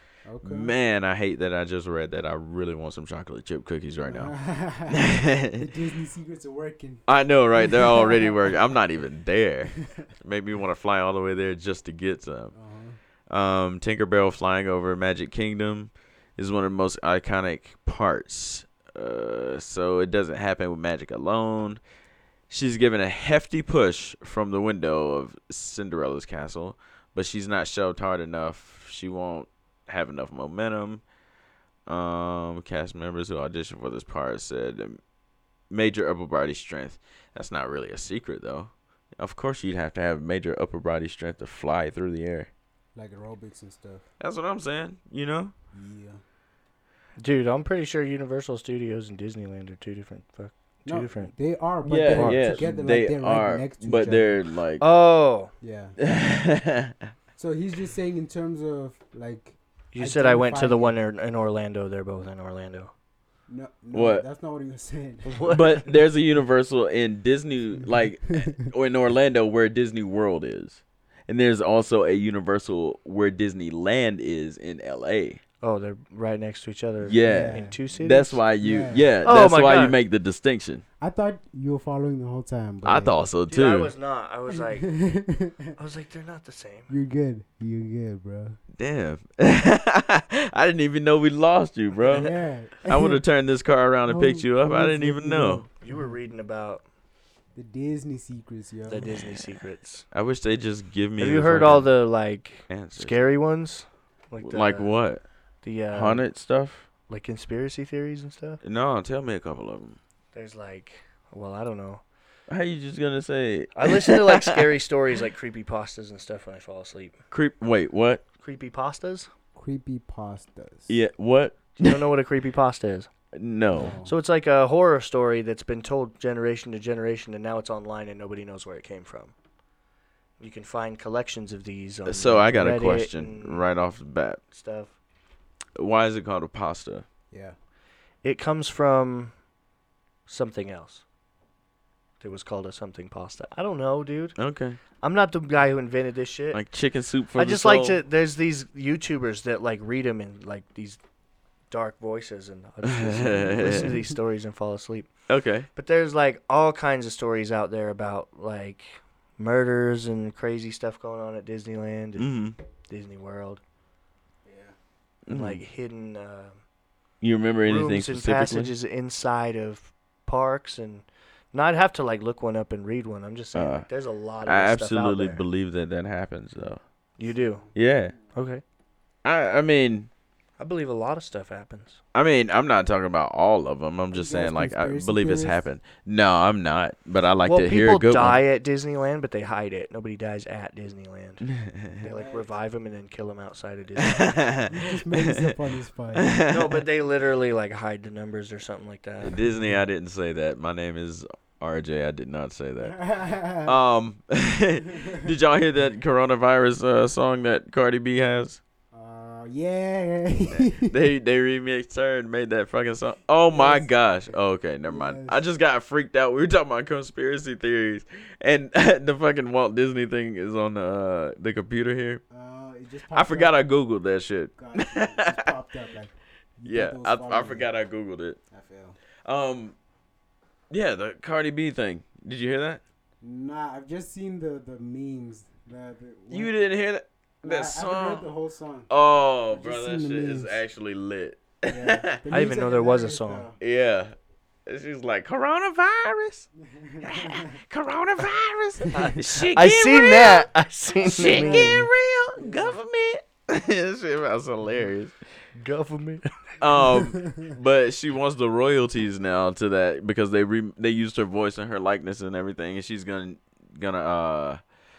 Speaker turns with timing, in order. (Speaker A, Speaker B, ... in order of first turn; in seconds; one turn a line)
Speaker A: 0.3-0.7
Speaker B: 0.4-4.3
Speaker A: 4.0-7.0
Speaker B: 4.9-5.7
Speaker B: 7.1-12.5
Speaker A: 7.6-8.8
Speaker A: 9.8-10.1
Speaker A: 12.5-13.0
Speaker B: 13.3-21.8
Speaker B: 22.5-31.0
Speaker B: 31.9-35.0
Speaker B: 35.7-42.5
Speaker A: 43.0-44.1
Speaker B: 44.2-45.5
Speaker A: 45.7-46.2
Speaker C: 47.2-51.3
Speaker A: 50.9-54.4
Speaker B: 51.8-54.8
Speaker C: 52.1-52.6
Speaker C: 54.8-55.5
Speaker A: 55.6-56.0
Speaker B: 56.0-57.0
Speaker A: 57.4-61.0
Speaker C: 59.9-62.9
Speaker A: 63.5-65.6
Speaker B: 63.9-64.2
Speaker C: 65.2-65.8
Speaker B: 65.5-75.4
Speaker A: 67.8-68.5
Speaker C: 75.6-78.4
Speaker B: 77.0-80.8
Speaker A: 77.2-77.8
Speaker A: 78.4-79.1
Speaker C: 79.2-80.0
Speaker A: 81.0-83.3
Speaker B: 82.8-83.9
Speaker C: 83.5-84.9
Speaker A: 84.5-85.8
Speaker C: 85.8-86.9
Speaker A: 86.9-88.6
Speaker B: 88.8-92.3
Speaker A: 92.0-93.2
Speaker B: 92.8-95.7
Speaker A: 94.1-96.1
Speaker C: 95.8-96.8
Speaker A: 97.5-99.1
Speaker C: 98.9-100.0
Speaker B: 99.1-99.6
Speaker B: 100.1-101.9
Speaker C: 101.2-104.9
Speaker B: 102.7-103.2
Speaker B: 104.4-105.2
Speaker C: 105.6-106.3
Speaker B: 105.9-106.9
Speaker C: 107.1-108.6
Speaker B: 108.6-110.0
Speaker C: 110.3-112.0
Speaker B: 112.5-114.7
Speaker C: 113.8-117.2
Speaker B: 117.3-118.2
Speaker C: 118.4-119.3
Speaker A: 119.5-120.9
Speaker B: 120.9-122.0
Speaker C: 121.8-123.1
Speaker B: 123.3-124.0
Speaker A: 123.7-124.1
Speaker C: 124.0-129.3
Speaker C: 130.4-133.7
Speaker B: 132.1-134.4
Speaker C: 134.5-135.0
Speaker B: 135.8-137.1
Speaker A: 137.3-137.6
Speaker C: 138.2-139.3
Speaker C: 140.3-141.0
Speaker C: 142.2-144.4
Speaker B: 144.4-144.8
Speaker C: 145.0-146.6
Speaker B: 146.5-148.0
Speaker C: 147.4-151.0
Speaker C: 151.7-155.1
Speaker B: 152.8-154.0
Speaker B: 155.3-155.7
Speaker C: 155.8-162.3
Speaker B: 162.2-162.6
Speaker C: 162.9-163.6
Speaker A: 164.4-164.8
Speaker B: 165.3-165.6
Speaker C: 165.3-166.6
Speaker B: 167.2-168.7
Speaker C: 167.6-175.4
Speaker B: 173.5-173.9
Speaker B: 174.5-176.8
Speaker C: 177.2-177.7
Speaker A: 177.3-178.3
Speaker B: 177.8-178.2
Speaker C: 178.3-178.6
Speaker B: 179.2-180.1
Speaker C: 180.6-182.0
Speaker B: 182.1-188.4
Speaker A: 184.1-185.6
Speaker C: 187.4-191.5
Speaker B: 191.6-192.0
Speaker A: 192.0-192.5
Speaker C: 192.0-194.4
Speaker B: 194.0-195.5
Speaker A: 194.7-196.3
Speaker B: 196.1-196.8
Speaker C: 196.5-199.4
Speaker B: 199.2-203.0
Speaker A: 199.4-199.8
Speaker A: 202.8-203.8
Speaker B: 203.7-208.6
Speaker A: 204.9-205.3
Speaker A: 208.9-211.0
Speaker B: 210.5-222.2
Speaker A: 213.5-213.9
Speaker A: 214.9-215.4
Speaker A: 222.3-223.6
Speaker B: 223.1-225.5
Speaker A: 224.6-227.7
Speaker B: 226.7-228.4
Speaker A: 228.5-229.0
Speaker B: 229.2-229.7
Speaker B: 230.7-232.8
Speaker A: 233.2-236.5
Speaker B: 236.3-238.3
Speaker A: 237.4-238.9
Speaker B: 238.9-242.2
Speaker A: 239.5-240.6
Speaker A: 241.7-243.6
Speaker C: 242.3-243.5
Speaker B: 243.6-244.1
Speaker B: 244.7-246.5
Speaker A: 246.6-247.6
Speaker B: 247.0-250.5
Speaker C: 248.9-251.8
Speaker B: 251.0-255.2
Speaker A: 251.0-252.8
Speaker C: 255.6-257.0
Speaker B: 256.6-264.6
Speaker A: 257.0-257.5